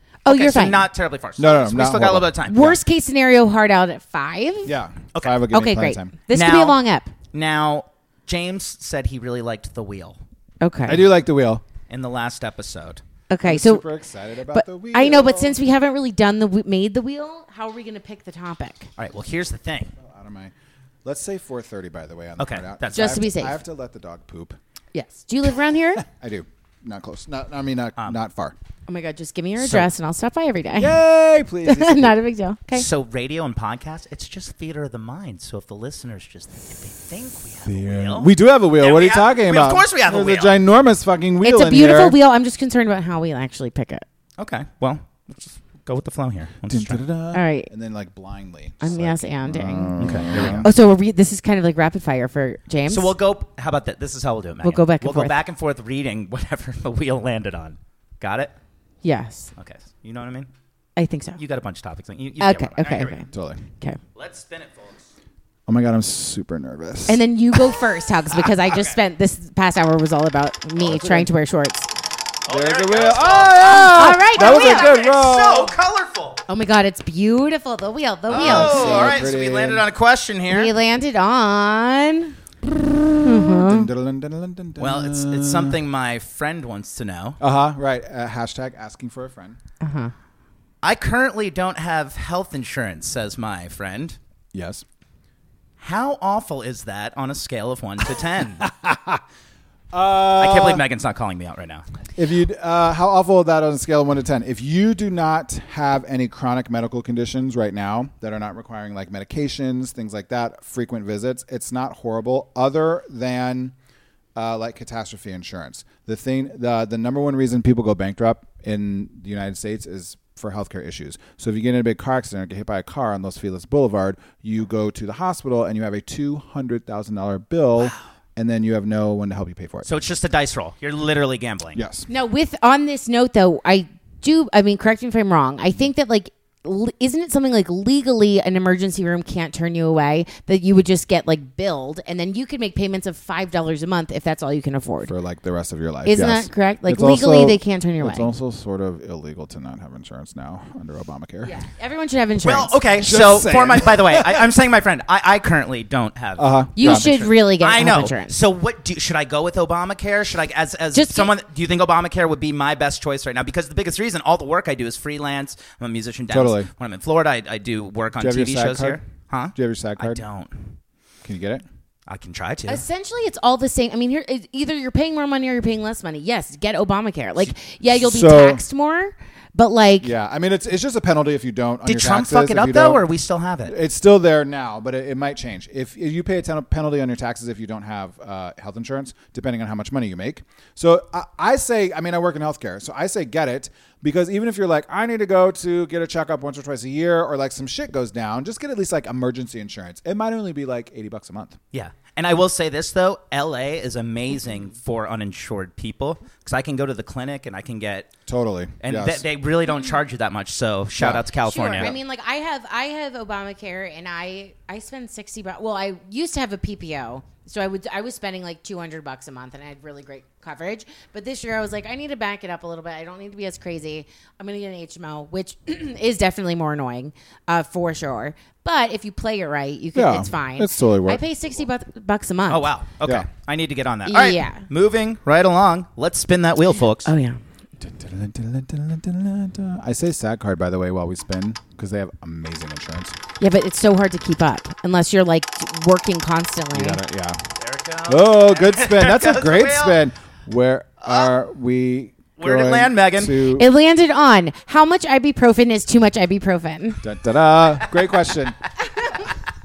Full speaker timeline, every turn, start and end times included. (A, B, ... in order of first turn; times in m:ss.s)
0:00.2-0:00.9 A
0:00.3-0:02.7 B
0:01.4-0:02.7 C
0:02.5-0:04.7 A
0:04.6-0:06.1 C
0:05.1-0:05.4 B
0:05.5-0:07.1 A
0:06.3-0:06.8 B
0:07.3-0:10.2 B
0:10.6-0:11.1 A
0:10.9-0:11.6 C
0:11.9-0:13.0 B
0:13.3-0:13.8 A
0:13.4-0:15.6 C
0:14.5-0:18.9 A
0:19.0-0:19.9 B
0:20.0-0:20.5 C
0:21.0-0:24.6 C
0:22.4-0:23.2 B
0:22.9-0:23.6 A
0:24.9-0:26.0 A
0:26.0-0:28.6 C
0:28.9-0:31.0 A
0:29.6-0:29.9 B
0:30.8-0:32.2 C
0:31.6-0:32.9 A
0:32.7-0:40.6 B
0:37.6-0:42.2 C
0:41.4-0:44.0 A
0:44.4-0:47.0 B
0:46.7-0:50.7 C
0:47.3-0:47.7 A
0:48.8-0:49.9 A
0:50.0-0:50.6 B
0:50.5-0:53.1 A
0:52.9-0:58.5 B
0:54.6-0:55.4 A
0:59.0-0:59.5 A
0:59.6-1:00.5 B
1:01.0-1:01.4 A
1:01.4-1:03.3 B
1:02.4-1:03.2 A
1:03.3-1:03.6 C
1:04.1-1:05.0 B
1:05.7-1:07.2 C
1:07.1-1:11.9 A
1:10.8-1:11.3 C
1:12.5-1:15.7 C
1:12.5-1:16.4 B
1:13.6-1:14.9 A
1:16.5-1:19.1 A
1:18.3-1:20.7 B
1:18.3-1:19.8 C
1:20.5-1:22.3 A
1:23.1-1:25.8 C
1:23.2-1:23.9 A
1:24.8-1:27.4 B
1:27.4-1:29.6 C
1:29.8-1:30.1 A
1:30.8-1:34.2 B
1:34.5-1:34.8 C
1:35.8-1:38.6 B
1:38.6-1:39.2 C
1:39.9-1:40.8 C
1:40.4-1:41.8 B
1:42.2-1:53.7 C
1:54.4-2:10.0 C
2:09.8-2:11.8 B
2:11.7-2:12.1 C
2:12.1-2:25.1 A
2:25.0-2:31.5 C
2:26.0-2:28.3 A
2:31.4-2:32.8 A
2:32.4-2:50.7 B
2:33.0-2:34.4 C
2:36.4-2:37.1 C
2:36.8-2:38.3 A
2:40.9-2:41.3 A
2:46.3-2:46.7 C
2:48.2-2:49.0 C
2:49.5-2:50.2 C
2:51.2-2:51.6 C
2:52.1-2:52.8 B
2:52.7-3:00.1 A
2:57.9-2:58.6 C
3:00.0-3:03.0 C
3:01.8-3:03.7 B
3:03.6-3:21.6 C
3:21.7-3:28.1 B
3:28.3-3:29.2 C
3:28.8-3:31.9 B
3:31.0-3:31.9 C
3:31.4-3:52.7 A
3:49.9-3:51.2 C
3:52.5-3:57.1 B
3:54.1-3:54.7 A
3:57.0-3:57.4 A
3:57.8-4:03.2 C
4:03.4-4:07.0 A
4:06.7-4:07.5 C
4:07.6-4:10.0 B
4:08.1-4:13.7 C
4:11.0-4:11.3 B
4:12.4-4:13.4 B
4:13.5-4:17.0 A
4:17.0-4:18.6 C